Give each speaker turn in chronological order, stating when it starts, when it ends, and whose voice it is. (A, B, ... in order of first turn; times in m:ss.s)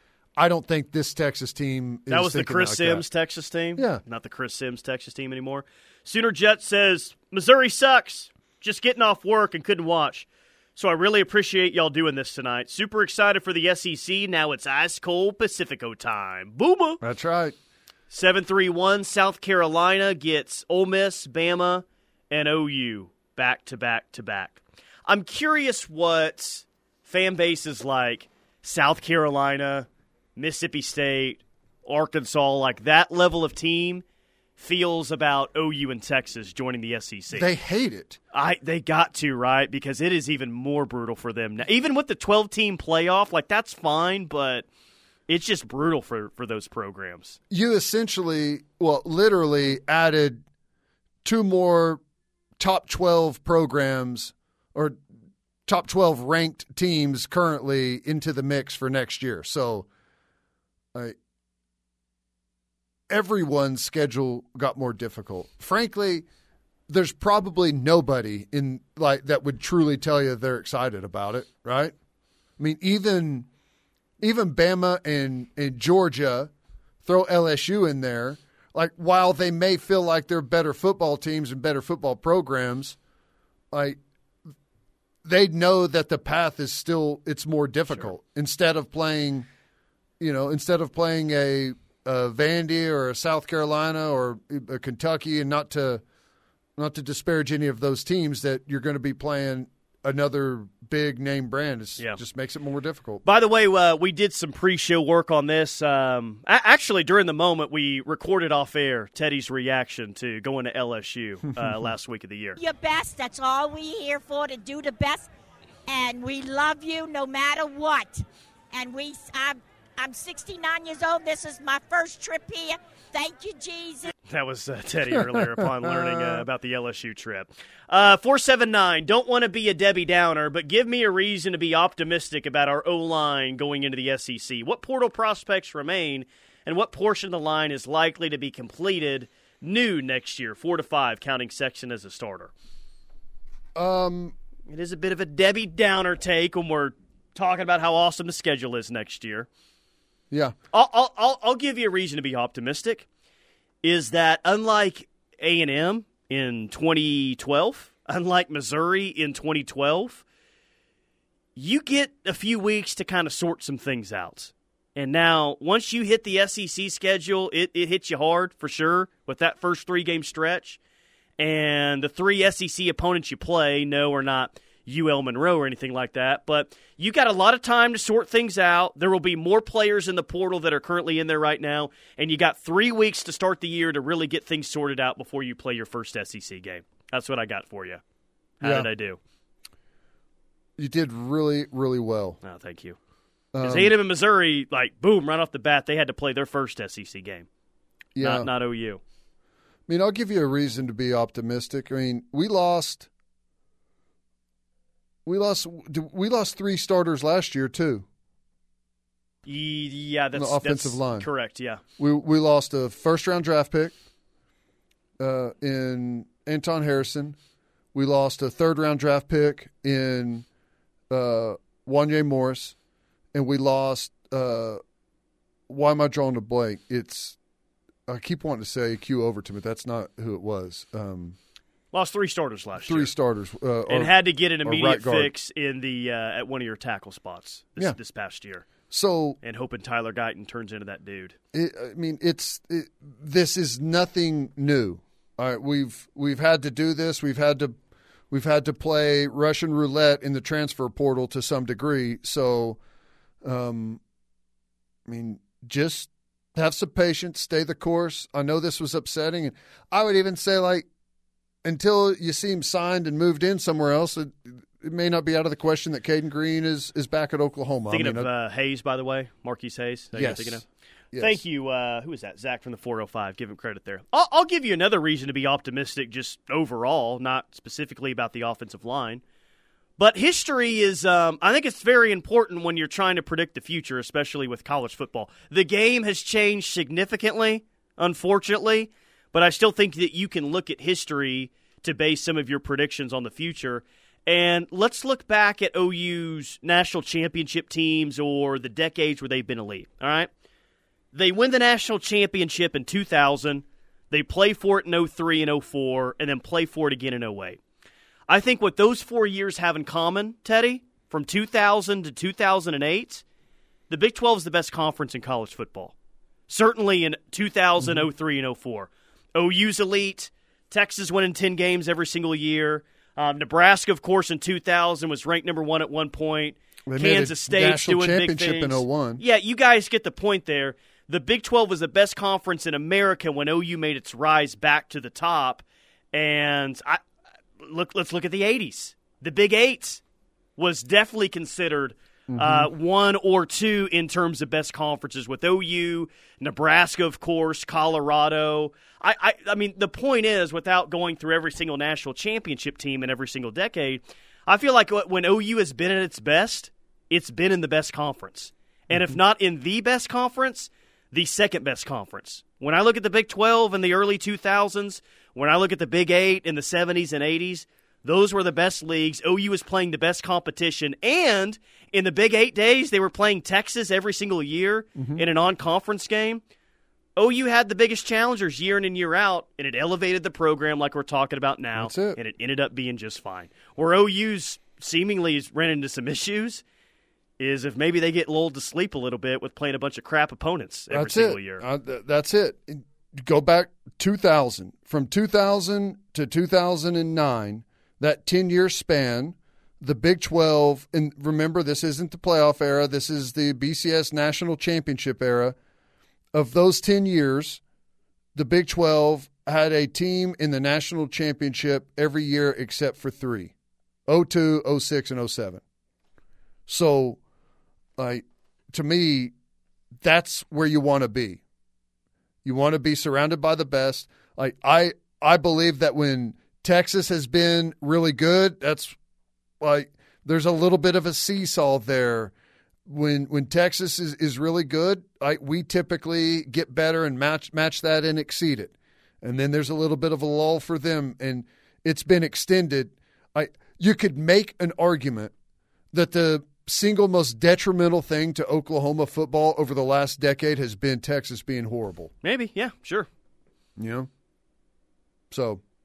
0:00.4-0:03.1 A
0:02.1-0:17.0 B
0:03.8-0:04.0 A
0:17.0-0:17.6 A
0:18.1-0:34.0 B
0:34.6-0:37.5 B
0:37.3-0:38.2 A
0:38.3-0:44.7 B
0:45.3-0:47.4 B
0:47.5-0:50.4 A
0:51.2-0:52.0 A
0:52.6-0:55.0 A
0:55.7-0:59.9 A
1:03.1-1:06.3 A
1:06.9-1:11.9 A
1:12.6-1:13.5 A
1:14.2-1:16.5 A
1:17.0-1:23.0 A
1:23.7-1:24.0 A
1:25.2-1:29.5 A
1:30.2-1:36.0 A
1:36.8-1:43.2 A
1:43.2-1:52.6 B
1:52.6-1:55.3 C
1:55.9-2:04.1 C
2:04.3-2:22.5 B
2:05.3-2:06.4 A
2:23.7-2:24.3 A
2:24.7-2:29.5 B
2:30.7-2:33.0 B
2:33.8-2:40.2 B
2:41.6-2:50.8 B
2:51.4-3:08.0 B
3:08.6-3:09.2 B
3:08.6-3:08.9 A
3:10.8-3:12.4 A
3:12.4-3:13.0 B
3:13.5-3:14.0 A
3:13.6-3:17.5 B
3:18.1-3:18.5 A
3:18.2-3:19.0 B
3:19.9-3:23.1 A
3:25.3-3:28.0 A
3:29.4-3:31.8 B
3:30.3-3:31.3 A
3:32.0-3:34.0 A
3:35.2-3:37.4 A
3:37.9-3:40.4 A
3:41.1-3:42.7 A
3:43.3-3:44.8 A
3:45.7-3:47.4 A
3:48.1-3:51.4 A
3:51.9-3:53.1 B
3:52.8-3:55.3 A
3:53.9-3:58.7 B
3:58.9-3:59.4 A
3:59.4-4:01.4 B
4:01.5-4:07.8 A
4:08.3-4:12.8 A
4:13.4-4:14.0 A
4:15.0-4:20.9 A
4:21.6-4:28.3 A
4:27.9-4:30.6 B
4:30.1-4:31.4 A
4:31.2-4:39.2 B
4:40.0-5:00.3 B
5:01.1-5:07.6 B
5:08.3-5:13.2 B
5:13.9-5:15.9 B
5:16.5-5:37.0 B
5:17.8-5:18.1 A
5:26.9-5:29.2 A
5:37.6-5:40.0 B
5:40.6-6:16.4 B
5:42.3-5:42.7 A
6:15.0-6:15.2 A
6:17.2-6:26.6 B
6:21.8-6:22.2 A
6:27.4-6:31.6 B
6:30.9-6:45.6 A
6:46.3-6:47.6 A
6:48.3-6:53.5 A
6:54.1-6:55.6 A
6:56.7-6:57.2 A
6:58.0-6:59.3 A
7:00.0-7:01.4 A
7:02.4-7:09.0 A
7:09.6-7:12.3 A
7:12.9-7:25.3 A
7:25.9-7:32.1 A
7:32.2-7:33.1 B
7:33.8-7:34.1 A
7:35.3-7:35.6 A